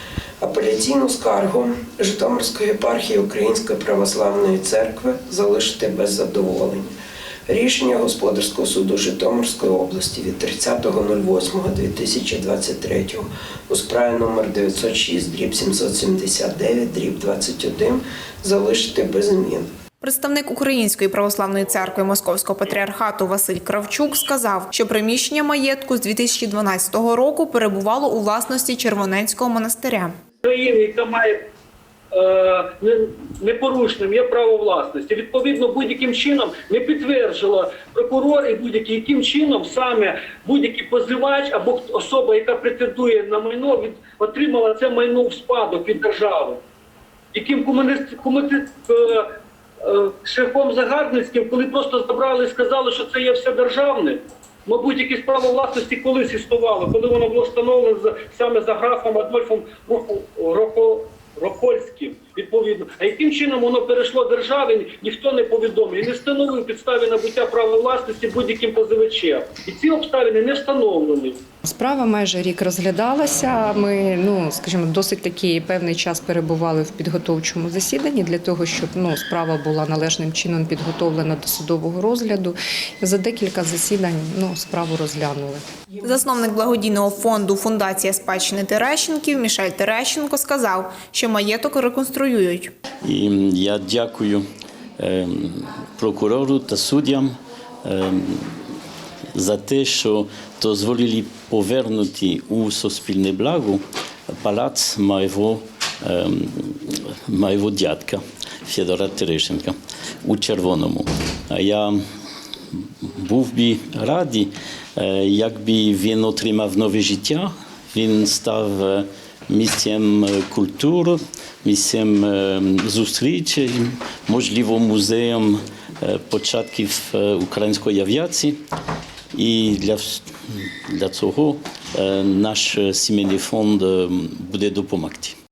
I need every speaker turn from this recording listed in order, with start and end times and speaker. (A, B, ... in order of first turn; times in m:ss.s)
0:00.4-0:06.9 A
0:07.5-0:19.7 A
0:20.0-0:30.1 B
0:30.4-0:31.4 C
0:32.1-0:46.6 C
0:47.3-0:49.3 C
0:49.8-1:11.4 C
1:11.6-1:25.6 D
1:26.0-1:32.7 B
1:33.0-1:34.4 E
1:35.0-1:37.3 E
1:37.8-1:38.4 E
1:39.3-1:43.8 E
1:44.4-1:52.0 E
1:53.0-2:08.6 E
2:09.3-2:10.2 E
2:10.9-2:15.3 E